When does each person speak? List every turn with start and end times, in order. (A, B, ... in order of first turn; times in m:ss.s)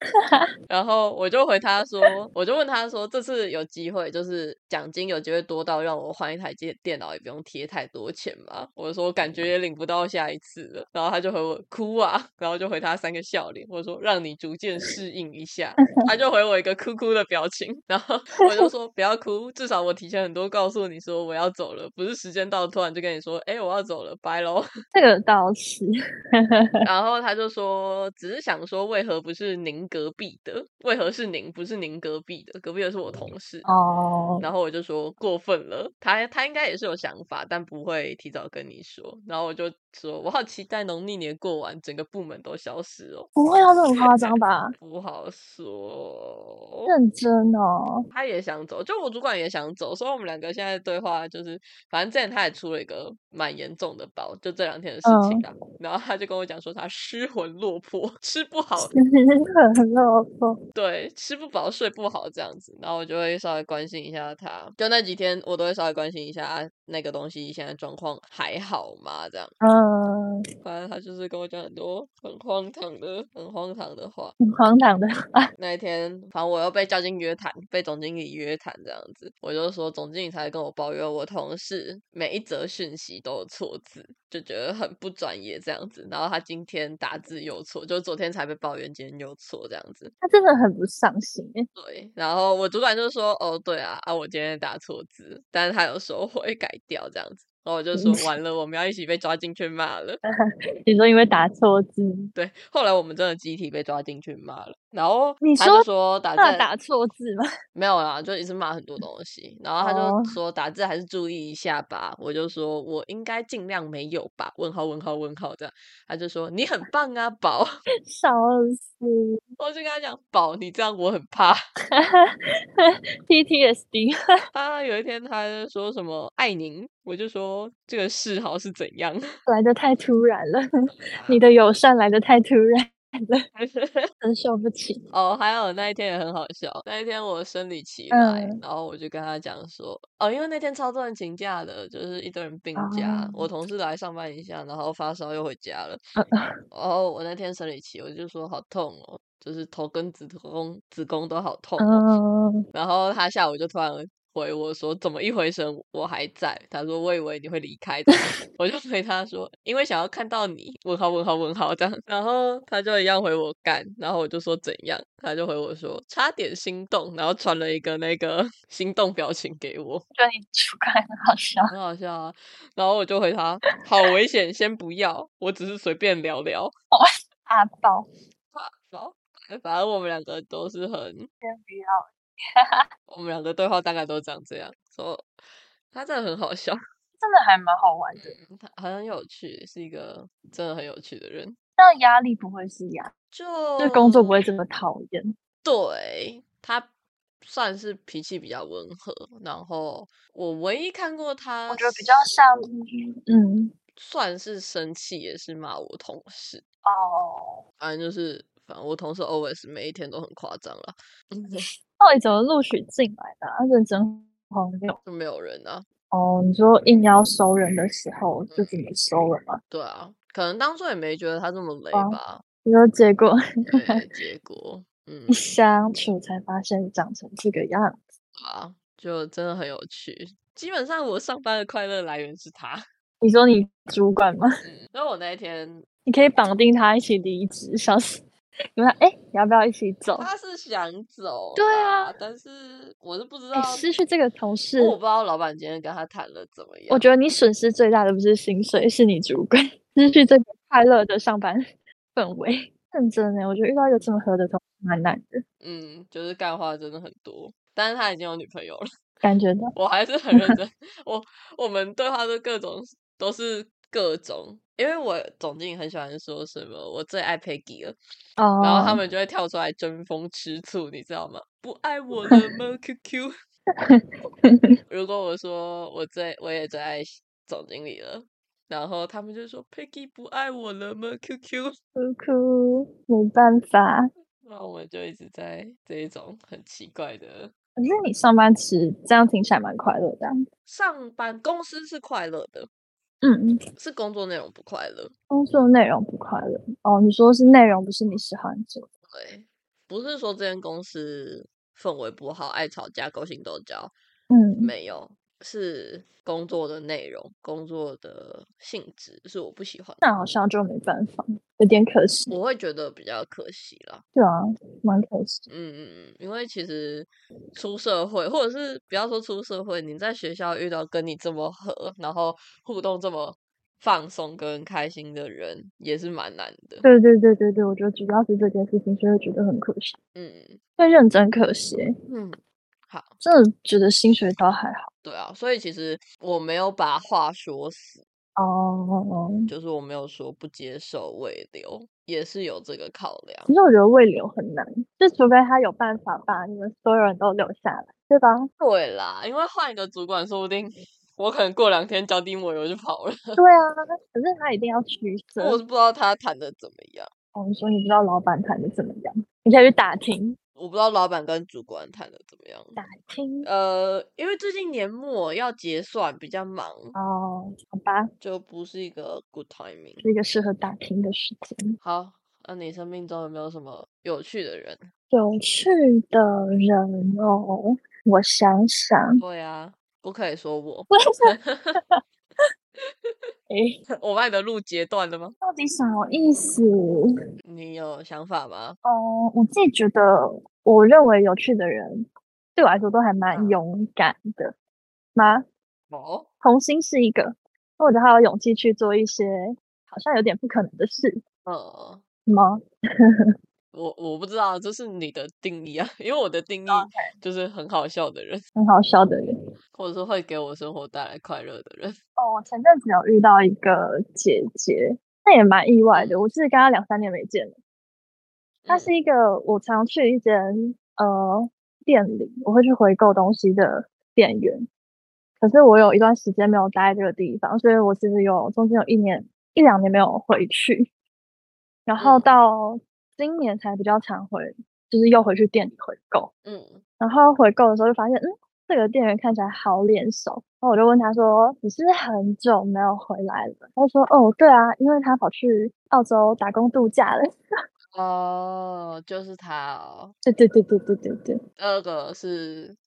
0:00.2-0:00.5 A
0:00.7-0:24.7 B
0:24.9-0:26.7 A
0:26.8-0:33.7 B
0:33.6-0:34.4 A
0:34.4-0:43.3 B
0:43.4-0:44.8 A
0:43.9-0:46.9 B
0:46.9-0:48.0 A
0:48.1-0:58.9 B
0:55.0-0:55.4 A
0:58.9-1:00.6 A
1:00.7-1:09.5 B
1:09.6-1:10.4 A
1:10.6-1:14.4 B
1:14.4-1:15.5 A
1:15.6-1:30.1 B
1:30.2-1:31.7 A
1:31.8-1:40.2 B
1:37.9-1:38.3 A
1:40.8-1:42.3 A
1:42.4-1:46.7 B
1:45.4-1:45.8 A
1:46.4-1:47.4 A
1:47.7-1:57.7 B
1:49.8-1:50.3 A
1:58.0-1:59.3 A
1:59.6-2:01.6 B
2:01.9-2:04.2 A
2:04.5-2:09.2 B
2:09.5-2:13.4 A
2:10.9-2:11.4 B
2:13.6-2:14.1 B
2:14.2-2:15.0 A
2:15.1-2:26.0 B
2:18.1-2:18.6 A
2:22.8-2:23.5 A
2:26.2-2:26.6 A
2:26.7-2:32.1 B
2:31.8-2:32.6 A
2:32.7-2:50.0 B
2:50.2-2:51.7 A
2:51.7-2:56.7 B
2:56.9-2:58.1 A
2:58.5-3:01.3 B
3:01.4-3:02.8 A
3:03.1-3:05.3 B
3:05.9-3:06.8 B
3:07.2-3:08.4 A
3:08.2-3:11.6 B
3:11.8-3:13.1 A
3:13.3-3:14.4 B
3:13.8-3:15.3 A
3:15.6-3:16.9 B
3:17.4-3:22.2 B
3:21.7-3:23.7 A
3:24.0-3:26.6 B
3:26.8-3:27.6 A
3:27.8-3:31.6 B
3:32.0-3:35.0 A
3:35.0-3:35.9 B
3:36.1-3:39.6 A
3:38.5-3:38.8 B
3:39.7-3:42.4 B
3:41.9-3:44.0 A
3:43.7-3:45.4 B
3:45.3-3:48.0 A
3:48.4-3:52.8 B
3:53.2-3:54.5 A
3:54.6-3:55.8 B
3:56.1-3:58.2 A
3:58.8-4:00.3 A
4:00.2-4:03.9 B
4:01.6-4:02.1 A
4:03.5-4:05.0 A
4:04.8-4:07.1 B
4:06.9-4:15.4 A
4:15.6-4:18.8 B
4:19.2-4:19.7 A
4:19.7-4:28.0 B
4:28.4-4:29.0 A
4:28.6-4:33.3 B
4:33.9-4:34.7 A
4:34.9-4:41.8 B
4:42.0-4:44.1 A
4:44.4-4:47.5 B
4:47.8-4:50.3 A
4:50.7-4:52.7 B
4:53.2-4:53.6 A
4:53.8-4:55.1 B
4:55.3-4:58.8 A
4:59.1-5:03.9 B
5:04.3-5:04.7 A
5:04.6-5:10.0 B
5:10.0-5:12.3 A
5:12.3-5:14.0 B
5:14.1-5:15.5 A
5:15.5-5:26.8 B
5:26.8-5:30.0 A
5:30.1-5:30.6 B
5:30.8-5:31.9 A
5:32.1-5:33.1 B
5:33.2-5:34.9 A
5:35.0-5:38.0 B
5:38.4-5:39.5 A
5:39.5-5:43.5 B
5:43.5-5:48.5 A
5:48.6-5:53.4 B
5:53.4-5:55.6 A
5:55.4-5:57.1 B
5:57.3-6:00.4 A
6:00.6-6:02.8 B
6:02.8-6:03.5 A
6:03.4-6:06.9 B
6:06.9-6:08.1 A
6:08.2-6:10.0 B
6:10.0-6:11.8 A
6:11.8-6:14.9 B
6:15.1-6:19.2 A
6:19.2-6:21.8 B
6:20.9-6:21.9 A
6:22.8-6:23.3 B
6:23.5-6:23.8 A
6:23.9-6:25.3 B
6:25.4-6:27.1 A
6:27.4-6:28.8 B
6:28.8-6:34.5 A
6:33.3-6:33.6 B
6:35.1-6:35.4 A
6:35.9-6:36.3 B
6:36.4-6:41.2 A
6:41.4-6:42.0 B
6:42.3-6:42.6 A
6:43.7-6:48.4 B
6:46.7-6:47.0 A
6:48.6-6:49.3 A
6:49.7-6:52.0 B
6:52.2-6:57.5 A
6:55.9-6:56.2 B
6:58.6-6:58.9 B
6:58.7-7:04.7 A
7:05.4-7:10.9 A
7:11.9-7:16.3 A
7:12.0-7:12.3 B
7:16.4-7:16.8 B
7:17.0-7:27.2 A
7:27.9-7:30.1 B
7:30.2-7:31.4 A
7:31.6-7:32.8 B